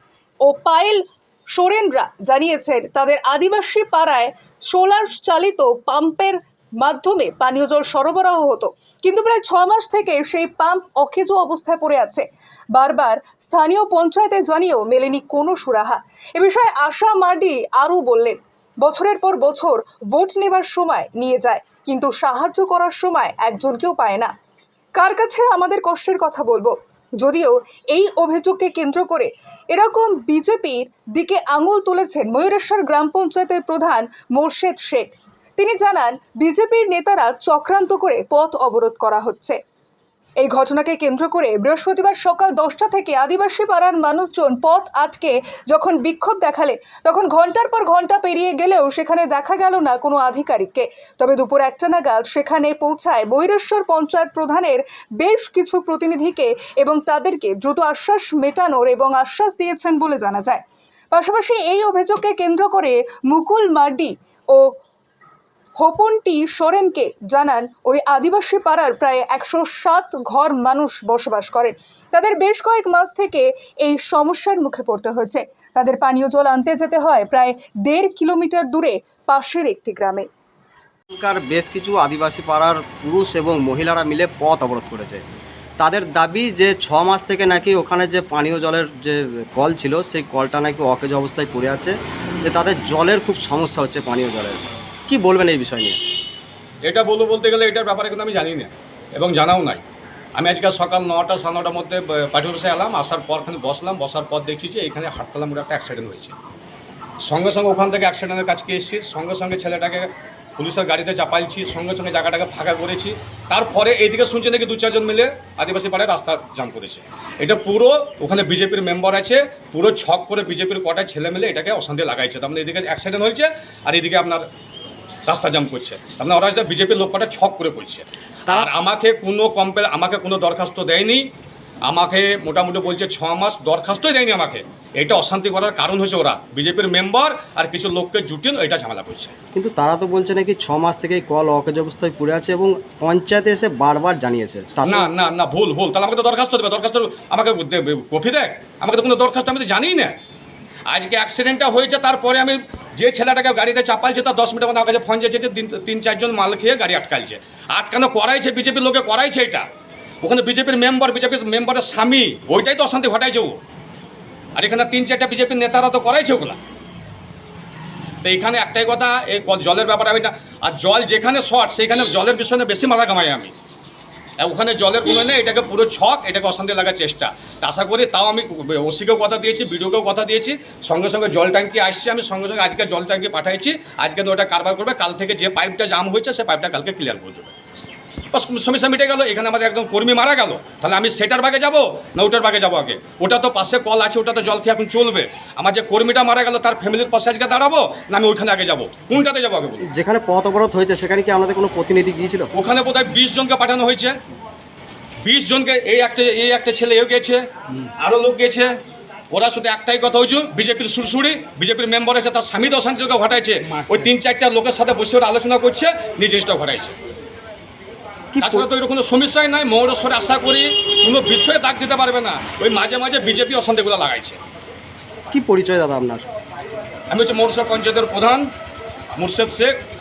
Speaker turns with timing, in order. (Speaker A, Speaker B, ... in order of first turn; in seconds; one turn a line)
Speaker A: 0.4-1.0
Speaker A: 1.5-24.3
Speaker A: 24.9-39.6
Speaker A: 40.4-64.7
Speaker A: 65.8-80.2
Speaker B: 81.1-85.2
Speaker B: 85.8-96.0
Speaker C: 96.8-99.8
Speaker C: 100.4-106.3
Speaker C: 107.2-124.4
Speaker C: 125.3-131.3
Speaker C: 131.8-139.3
Speaker B: 139.5-145.1
Speaker C: 144.8-150.1
Speaker C: 150.9-159.6
Speaker C: 160.2-163.6
Speaker C: 164.6-166.6
Speaker C: 168.2-173.5
Speaker C: 174.4-187.5
Speaker C: 188.3-199.9
Speaker B: 199.8-202.5
Speaker C: 202.5-204.1
Speaker C: 205.2-207.4
Speaker C: 208.0-208.7
Speaker C: 209.3-216.9
Speaker B: 218.3-218.7
Speaker C: 218.4-224.4
Speaker B: 225.3-226.2
Speaker C: 227.1-228.5
Speaker C: 229.2-229.8